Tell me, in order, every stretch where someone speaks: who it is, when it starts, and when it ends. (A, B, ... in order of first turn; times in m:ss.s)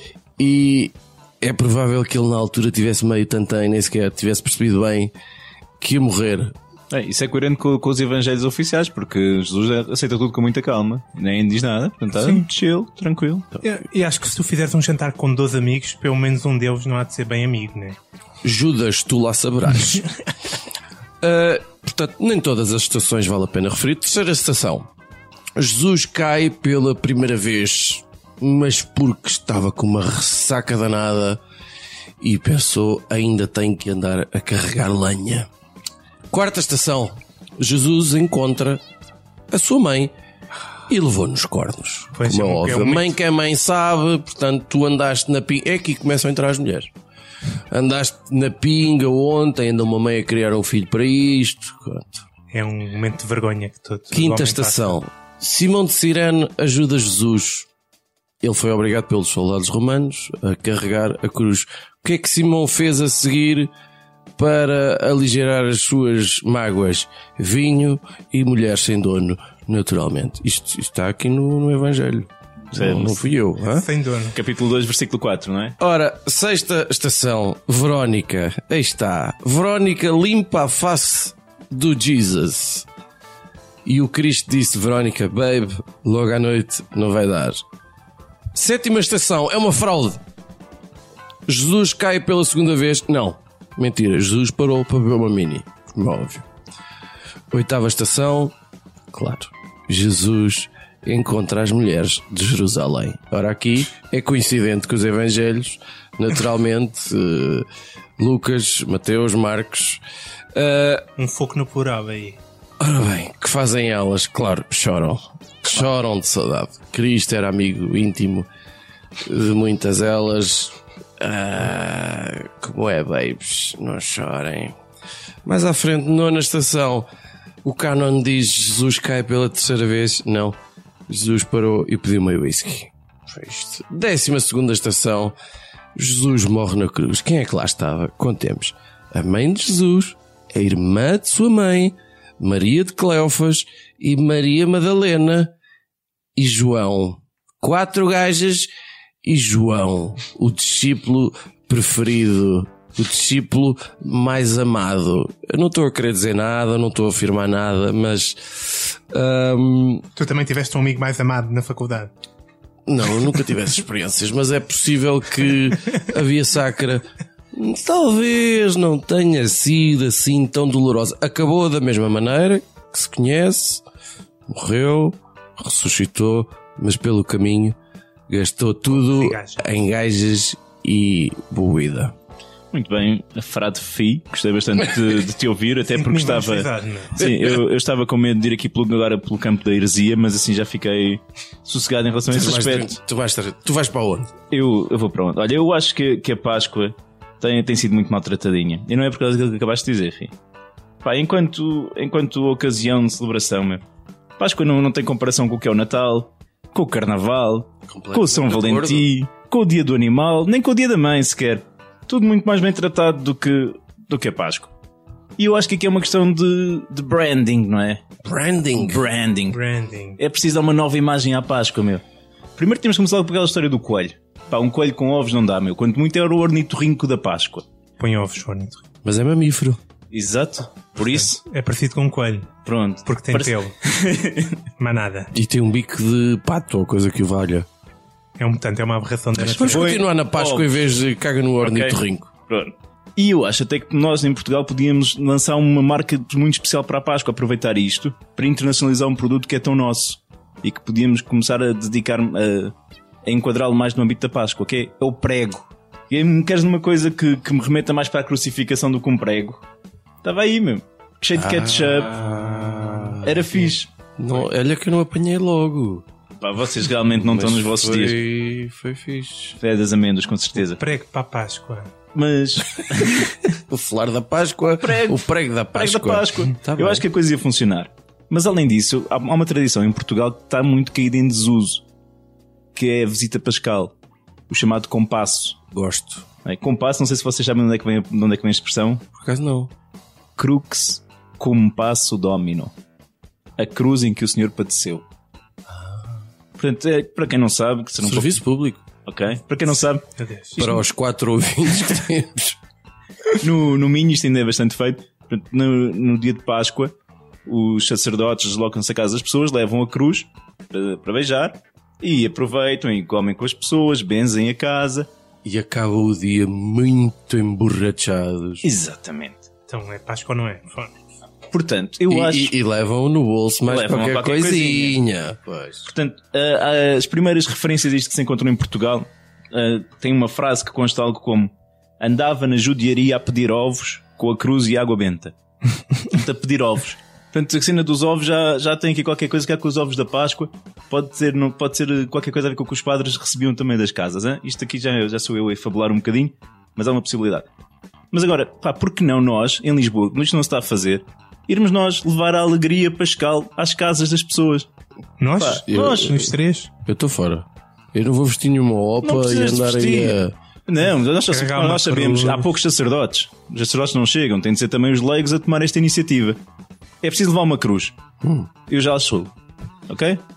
0:00.4-0:05.1 A
0:05.8-0:06.5 A
0:06.9-0:13.5 B
0:12.1-0:12.4 C
0:13.6-0:18.0 C
0:18.4-0:20.0 A
0:21.2-0:24.9 A
0:25.6-0:31.4 A
0:32.2-0:35.5 A
0:36.3-0:38.8 A
0:39.5-0:40.1 A
0:40.9-0:46.9 A
0:42.1-0:43.2 C
0:47.7-0:52.2 A
0:52.5-0:55.0 C
0:54.1-0:57.7 A
0:58.4-1:03.7 A
1:04.4-1:13.8 A
1:12.7-1:13.2 B
1:13.7-1:14.4 C
1:14.3-1:15.7 B
1:15.8-1:22.8 A
1:23.8-1:27.6 A
1:28.5-1:30.2 A
1:31.5-1:36.4 A
1:37.5-1:38.5 A
1:39.1-1:47.6 A
1:48.2-1:50.0 A
1:50.5-1:51.0 A
1:51.2-1:52.4 C
1:52.8-1:58.5 A
1:59.2-2:04.7 A
2:05.4-2:07.1 A
2:07.6-2:10.6 A
2:11.1-2:15.4 A
2:15.9-2:25.5 A
2:26.4-2:28.7 A
2:29.2-2:40.0 A
2:40.1-2:42.1 C
2:42.9-2:53.8 A
2:54.5-2:57.8 A
2:58.3-3:02.1 A
2:58.9-2:59.6 C
3:02.7-3:13.0 B
3:05.9-3:07.2 C
3:07.2-3:07.6 A
3:12.3-3:14.3 A
3:14.5-3:20.3 B
3:21.0-3:23.8 B
3:24.4-3:34.7 B
3:27.9-3:29.1 A
3:35.4-3:38.0 B
3:38.2-3:39.0 A
3:38.8-3:39.6 B
3:39.5-3:40.2 C
3:40.2-3:42.0 B
3:42.6-3:47.6 B
3:48.0-3:48.8 C
3:49.0-3:49.8 A
3:50.1-3:51.4 B
3:51.0-3:52.5 C
3:52.6-3:54.6 B
3:53.0-3:53.7 C
3:54.8-3:55.3 C
3:55.3-3:57.6 A
3:58.4-3:59.9 C
3:59.4-4:02.3 A
3:59.7-4:00.8 B
4:01.6-4:12.7 B
4:13.2-4:19.6 B
4:20.2-4:22.2 B
4:21.3-4:26.0 A
4:23.2-4:23.9 B
4:26.4-4:28.2 B
4:27.1-4:29.6 A
4:29.6-4:30.8 B
4:30.6-4:31.9 C
4:32.1-4:33.4 B
4:33.7-4:37.0 A
4:34.8-4:41.8 B
4:42.7-4:44.0 B
4:44.5-4:45.6 B
4:45.7-4:46.2 A
4:46.4-4:49.0 B
4:49.2-4:49.7 A
4:50.4-4:52.7 B
4:53.6-4:55.0 B
4:55.7-4:56.1 A
4:56.6-4:58.4 B
4:58.0-4:58.8 A
4:59.0-5:00.0 B
5:00.2-5:00.6 C
5:00.6-5:00.8 B
5:00.6-5:02.6 A
5:03.4-5:06.9 B
5:07.4-5:15.1 B
5:15.4-5:18.6 A
5:18.6-5:19.4 B
5:19.7-5:21.0 C
5:21.5-5:22.5 B
5:22.1-5:25.9 A
5:23.6-5:25.0 B
5:25.9-5:35.3 B
5:36.0-5:47.5 B
5:48.1-5:54.7 B
5:55.2-5:56.7 C
5:55.4-5:56.2 B
5:55.7-5:56.3 A
5:56.8-6:00.3 A
5:59.0-6:06.4 B
6:01.1-6:02.5 C
6:07.0-6:07.9 B
6:08.2-6:08.5 A
6:08.7-6:09.3 B
6:09.9-6:10.2 B